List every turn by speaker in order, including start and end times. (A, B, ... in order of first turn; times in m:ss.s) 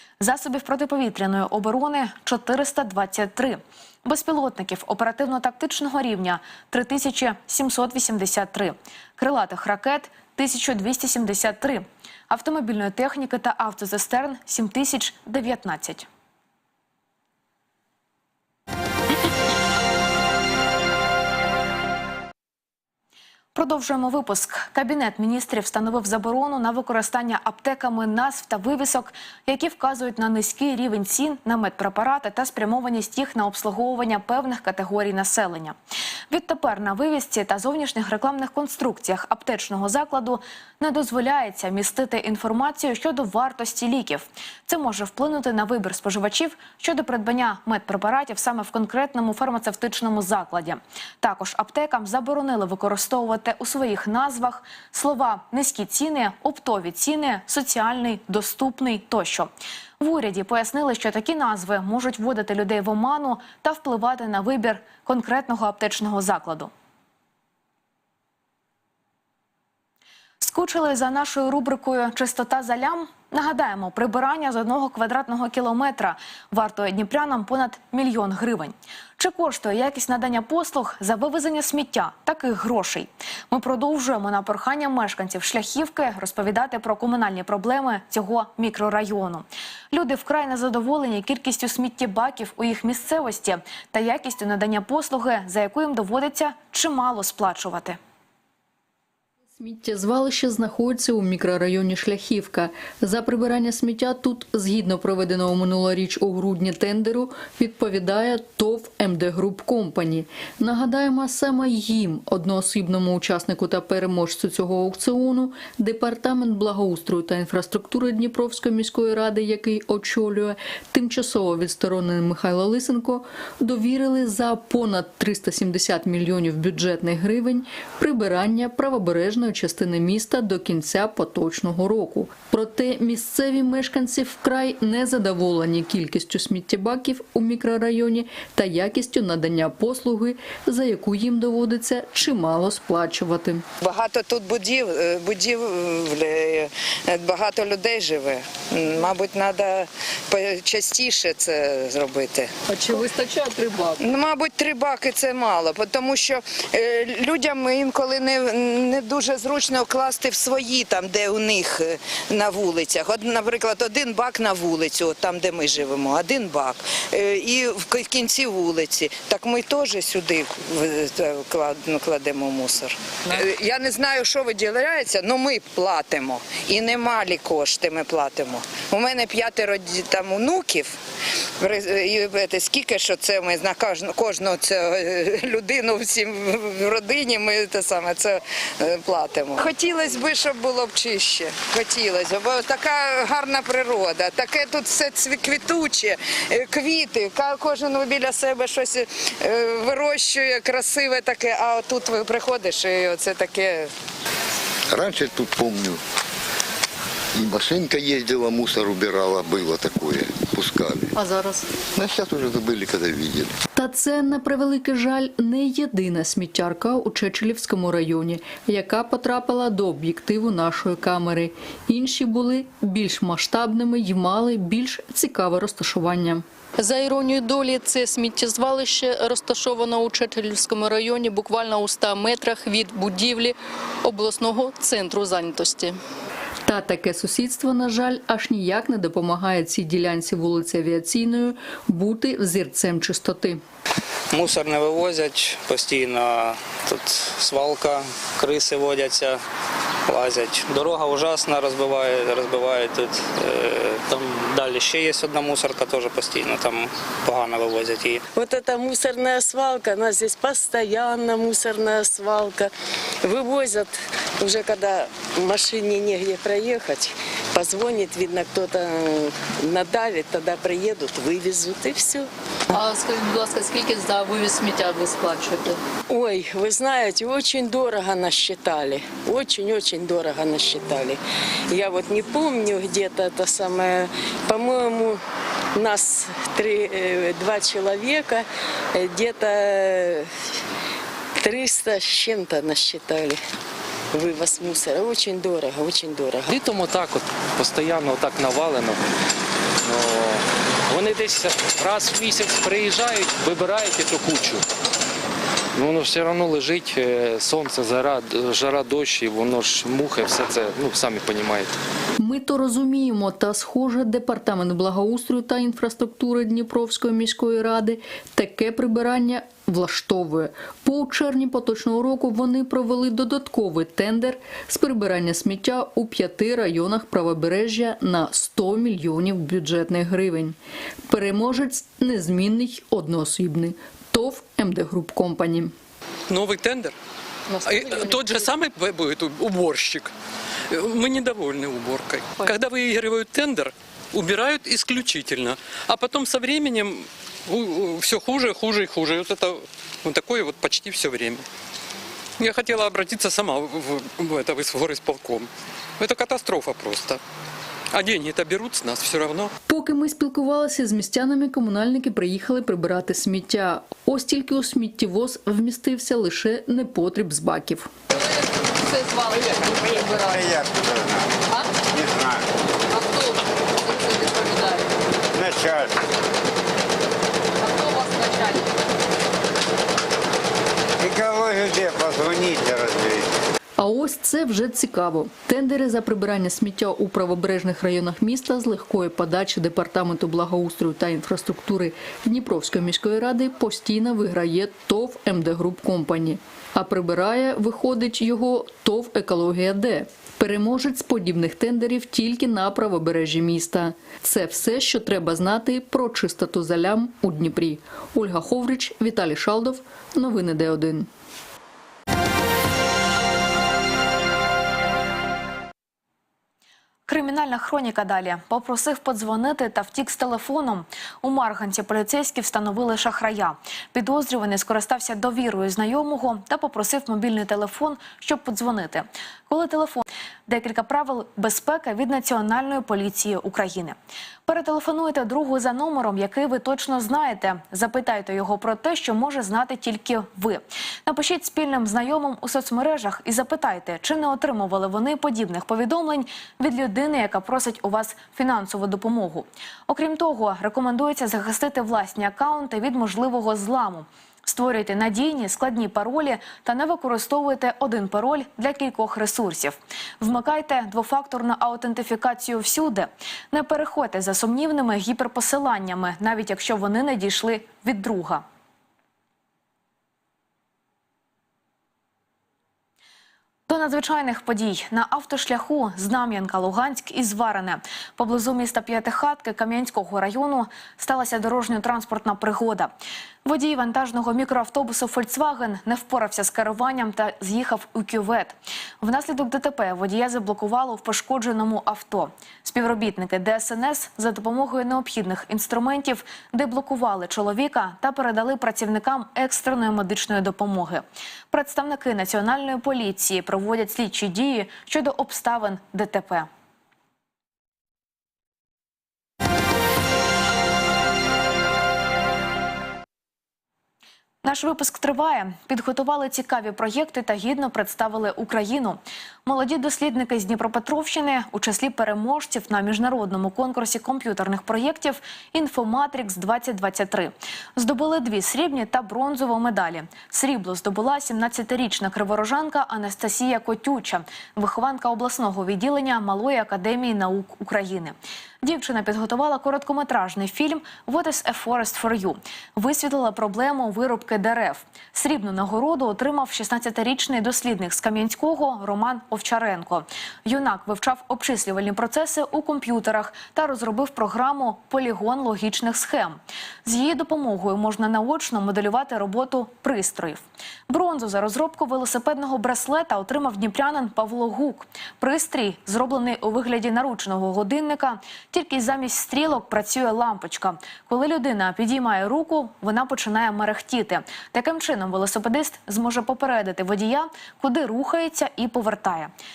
0:00.2-0:16.1 A
0:23.6-0:35.8 A
0:36.3-1:06.7 A
1:10.4-1:38.0 A
1:39.6-2:23.7 B
2:23.8-2:32.5 C
2:32.7-2:34.0 B
2:34.0-3:01.0 C
3:01.6-3:23.9 C
3:24.9-3:26.0 D
3:27.4-3:31.1 D
3:31.2-3:31.7 B
3:31.9-3:33.6 D
3:33.8-3:56.0 B
3:56.7-4:03.6 B
4:04.3-4:09.4 E
4:10.1-4:18.2 E
4:18.4-4:22.7 F
4:23.2-4:32.3 F
4:32.7-4:35.8 B
4:36.1-4:41.2 F
4:41.7-4:45.2 F
4:45.8-4:50.3 F
4:51.4-4:53.4 F
4:54.1-4:56.5 F
4:56.5-4:59.0 G
4:59.8-5:04.6 G
5:05.8-5:11.7 G
5:12.2-5:30.6 B
5:31.1-5:35.7 B
5:36.3-5:37.0 H
5:37.5-5:38.4 B
5:37.6-5:40.1 H
5:40.7-5:51.4 H
5:52.4-5:57.2 H
5:57.9-5:59.5 H
5:59.7-6:07.9 B
6:09.5-6:12.5 I
6:14.0-6:14.6 B
6:15.3-6:16.0 I
6:21.0-6:23.3 I
6:23.8-6:51.1 B
6:57.1-7:48.4 A
7:53.7-8:02.9 A
8:03.4-8:26.5 A
8:34.4-9:39.3 A